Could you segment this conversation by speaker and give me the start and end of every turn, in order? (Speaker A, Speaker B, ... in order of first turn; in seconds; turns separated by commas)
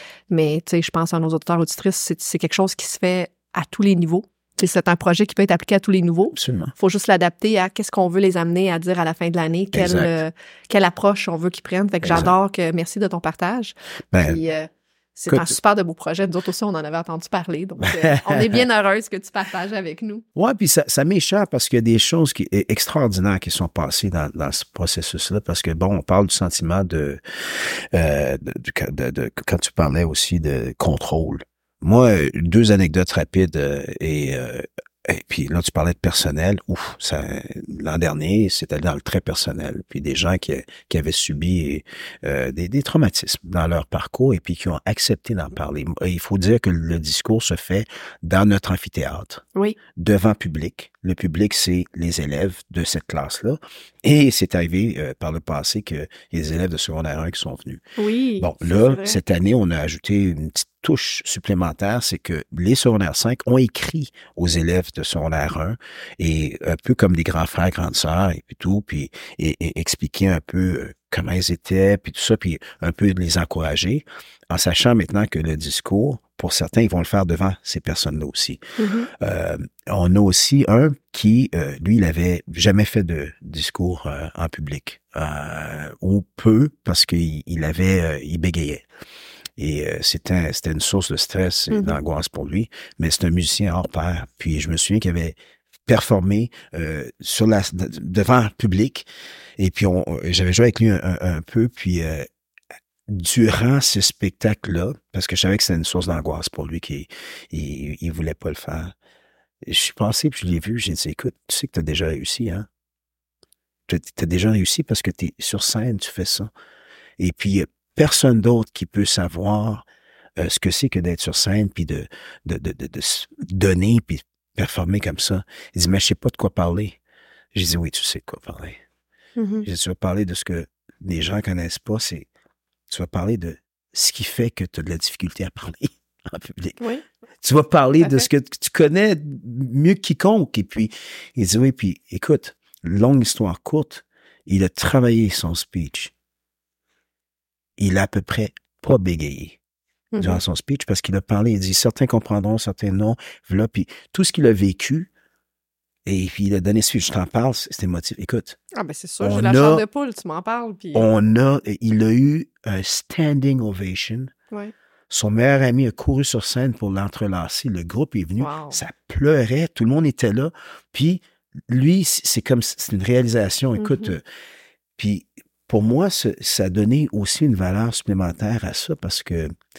Speaker A: 0.3-20.2, Speaker B: 6.3-6.7, Speaker B: 9.7-10.1, Speaker B: 12.0-12.3, Speaker B: 14.1-14.4, Speaker B: 15.3-15.6, Speaker B: 17.8-18.6, Speaker B: 20.4-49.4, Speaker B: 50.0-57.8, Speaker A: 58.0-59.2, Speaker B: 58.4-78.6, Speaker A: 78.8-79.1, Speaker B: 79.1-88.8, Speaker B: 89.6-99.1, Speaker A: 91.7-92.0, Speaker B: 99.6-102.3, Speaker B: 103.1-108.9, Speaker B: 109.7-112.7, Speaker B: 113.9-116.5, Speaker B: 117.2-119.9, Speaker B: 120.4-127.0, Speaker B: 127.5-128.8, Speaker A: 129.4-129.7, Speaker B: 129.6-132.3, Speaker B: 132.9-136.8, Speaker B: 137.4-146.1, Speaker A: 138.0-138.3, Speaker B: 147.8-149.6, Speaker A: 150.1-150.4, Speaker B: 150.2-155.1, Speaker B: 156.1-158.6, Speaker A: 158.8-161.1, Speaker B: 159.2-159.8, Speaker B: 160.9-164.3, Speaker B: 165.1-174.2, Speaker A: 168.4-168.8, Speaker A: 173.8-174.2, Speaker B: 175.0-179.5